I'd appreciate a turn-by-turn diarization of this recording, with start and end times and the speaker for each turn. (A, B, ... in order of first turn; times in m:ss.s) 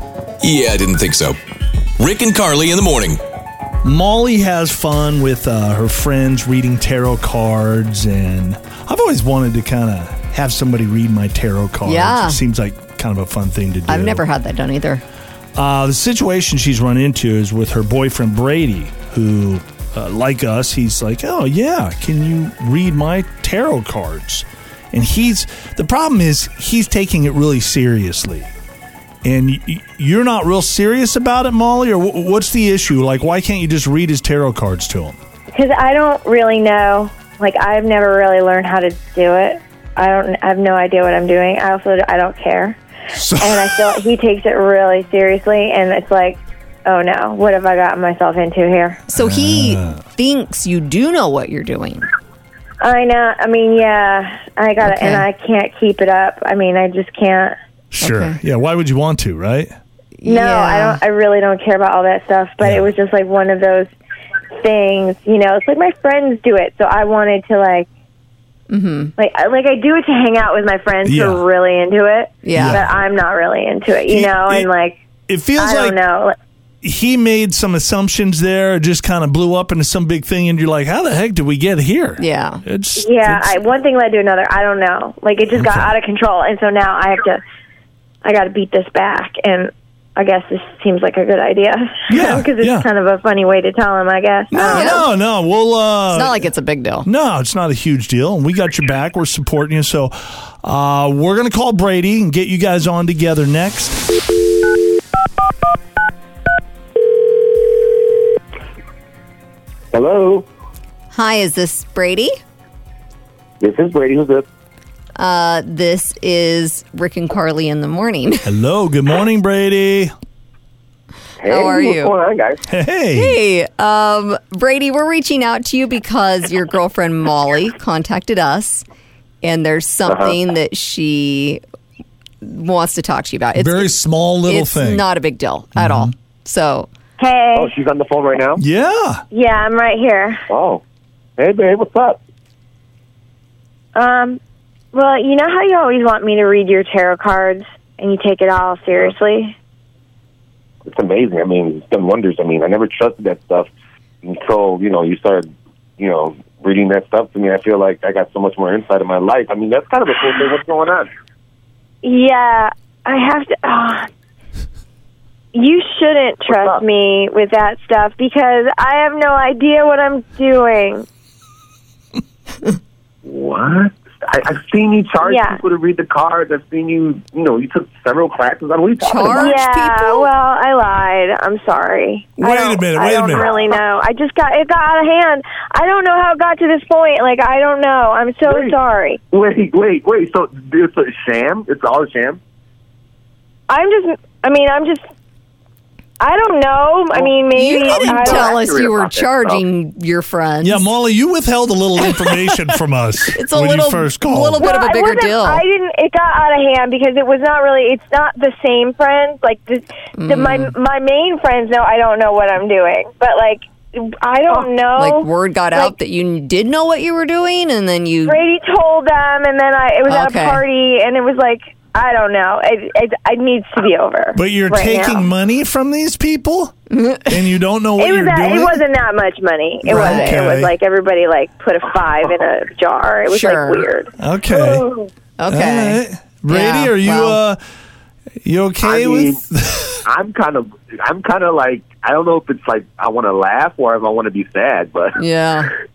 0:00.4-0:01.4 A
0:02.0-0:03.2 A
0:03.8-0:14.2 B
0:11.8-0:12.4 C
0:13.9-0:15.0 C
0:15.6-0:28.5 B
0:29.2-0:35.2 B
0:35.5-0:42.8 D
0:43.1-0:43.8 B
0:43.4-0:49.0 D
0:49.1-0:52.0 C
0:49.1-0:50.0 B
0:52.8-0:57.5 D
0:54.8-0:55.2 C
0:57.9-0:59.7 B
0:58.0-0:58.4 C
1:00.2-1:01.0 C
1:00.2-1:03.9 D
1:02.6-1:02.9 B
1:04.6-1:07.9 D
1:08.7-1:09.1 C
1:09.2-1:15.0 D
1:11.0-1:11.4 B
1:12.4-1:12.8 C
1:12.5-1:13.0 B
1:14.1-1:14.7 B
1:15.3-1:16.0 B
1:15.6-1:16.3 D
1:16.8-1:23.6 B
1:22.2-1:22.6 C
1:23.0-1:27.4 D
1:25.6-1:25.9 B
1:28.2-1:35.0 D
1:32.1-1:32.8 B
1:34.5-1:36.4 B
1:34.7-1:35.0 C
1:36.1-1:37.1 C
1:37.0-1:44.0 B
1:49.9-1:50.5 E
1:51.1-1:52.3 C
1:53.6-1:54.5 E
1:55.2-1:58.5 C
1:58.4-2:00.1 B
2:01.4-2:02.6 E
2:01.5-2:02.1 C
2:02.7-2:03.4 B
2:03.1-2:08.8 C
2:09.4-2:11.6 C
2:10.0-2:10.4 E
2:12.4-2:16.9 C
2:13.5-2:15.1 B
2:15.8-2:16.1 B
2:17.2-2:17.7 D
2:17.5-2:18.6 E
2:18.6-2:19.2 B
2:19.3-2:20.4 D
2:20.5-2:20.8 E
2:21.4-2:22.2 E
2:23.9-2:24.4 D
2:24.9-2:29.5 D
2:30.8-2:33.7 E
2:34.2-2:41.1 E
2:42.0-2:44.1 D
2:45.5-2:51.0 D
2:46.5-2:46.8 E
2:53.2-2:59.6 E
2:55.2-2:55.6 D
2:59.0-3:00.3 C
2:59.4-3:09.2 D
3:02.4-3:03.4 B
3:08.4-3:08.8 E
3:09.3-3:12.4 E
3:13.7-3:15.0 D
3:16.2-3:18.5 D
3:17.1-3:19.6 E
3:17.5-3:20.8 C
3:20.6-3:24.7 B
3:22.0-3:22.5 C
3:23.3-3:25.6 C
3:24.6-3:35.9 D
3:30.1-3:30.7 C
3:34.9-3:38.4 C
3:38.2-3:45.2 D
3:40.1-3:40.6 C
3:44.3-3:46.7 B
3:46.9-3:47.4 C
3:47.2-3:48.8 B
3:48.0-3:54.1 D
3:49.9-3:50.4 C
3:49.9-3:50.7 B
3:53.3-3:53.8 C
3:54.2-3:54.8 B
3:54.6-3:55.1 E
3:55.4-3:57.4 C
3:55.5-3:57.6 B
3:58.4-4:00.0 B
3:58.8-3:59.4 E
4:00.0-4:05.2 E
4:05.2-4:05.7 C